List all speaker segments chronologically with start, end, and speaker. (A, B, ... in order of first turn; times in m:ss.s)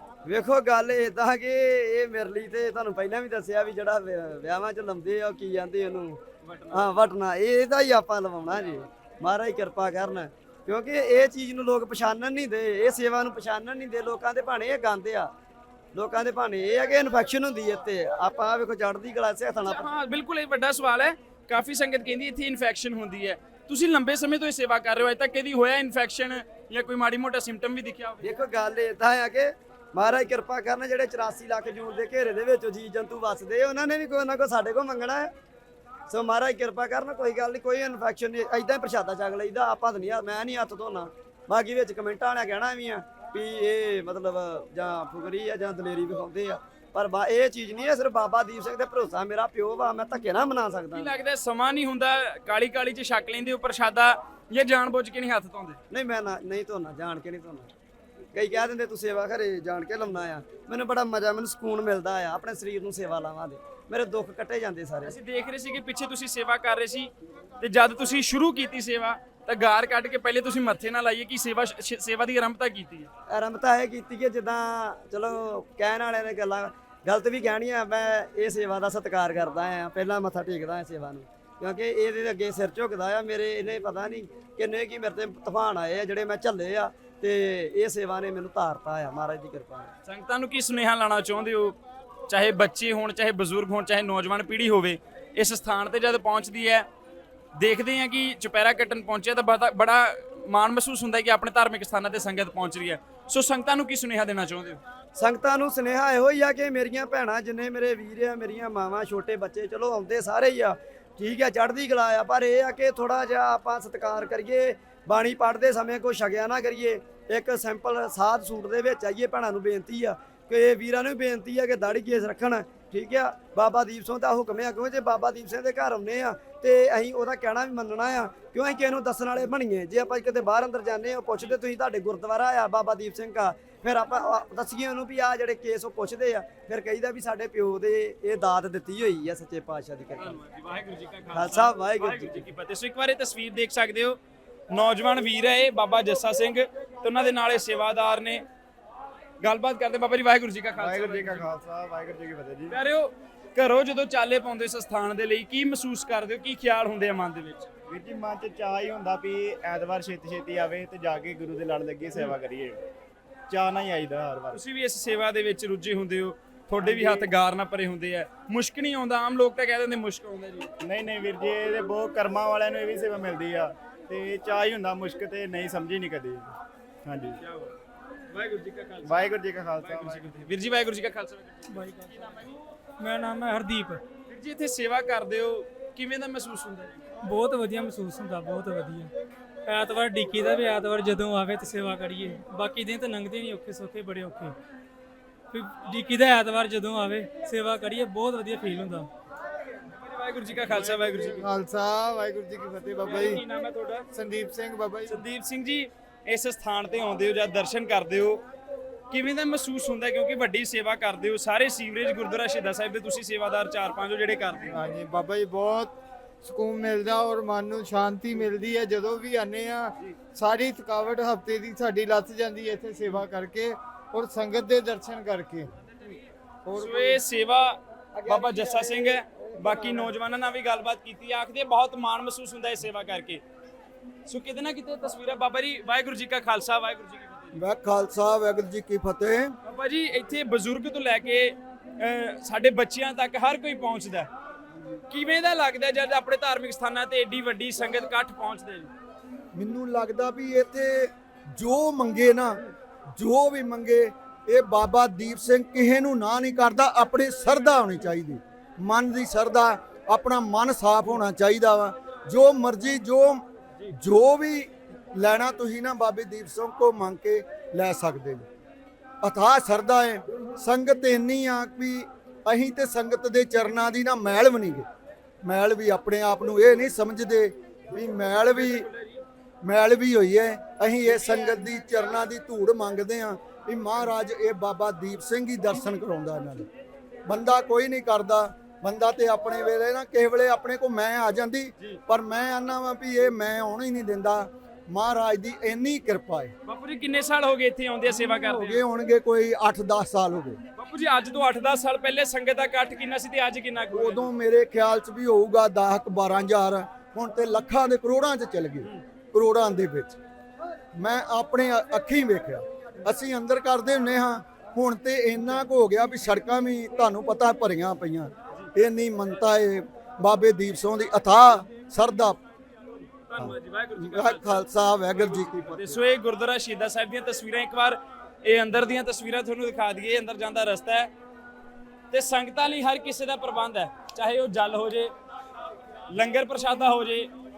0:00.3-0:06.2 A
0:06.4-0:06.9 B
0:06.7-0:15.3 A
0:15.9-0:19.9 A
0:19.6-0:28.3 B
0:28.2-0:35.3 A
0:36.1-0:51.1 A
0:50.9-0:55.8 B
0:55.9-0:57.7 A
0:58.3-1:05.2 A
1:05.1-1:13.1 B
1:13.3-1:29.9 A
1:30.1-1:31.8 B
1:32.3-1:36.9 B
1:37.6-1:44.8 B
1:45.2-2:20.3 A
2:20.2-2:24.2 B
2:21.3-2:22.4 A
2:24.7-2:28.4 B
2:29.4-2:31.5 B
2:30.8-2:32.8 C
2:32.7-2:37.7 B
2:37.9-2:42.8 C
2:43.5-2:44.6 C
2:44.5-2:50.7 B
2:50.8-2:57.4 C
2:57.4-2:57.7 B
2:58.3-2:59.2 B
2:59.0-3:00.5 C
2:59.8-3:02.5 B
3:01.7-3:02.1 D
3:03.0-3:04.0 D
3:04.3-3:07.0 B
3:07.2-3:09.1 D
3:09.6-3:14.6 D
3:15.5-3:19.1 D
3:19.9-3:21.5 B
3:20.7-3:23.4 E
3:23.0-3:24.1 B
3:24.1-3:25.2 E
3:25.0-3:28.4 B
3:29.1-3:34.8 B
3:34.7-3:45.7 E
3:46.7-3:47.2 E
3:46.7-3:53.4 B
3:54.3-3:57.6 B
3:57.6-3:59.5 F
3:59.6-4:04.3 B
4:05.1-4:08.9 B
4:09.6-4:12.6 F
4:13.2-4:28.5 F
4:29.2-4:34.9 F
4:35.4-4:38.9 F
4:39.6-4:46.7 F
4:47.3-4:56.5 F
4:56.7-4:58.8 B
4:58.3-5:00.6 F
5:00.8-5:04.3 B
5:03.9-5:10.2 F
5:11.0-5:22.4 F
5:23.3-5:31.1 B
5:23.4-5:26.0 F
5:32.1-5:35.1 B
5:36.1-5:37.3 B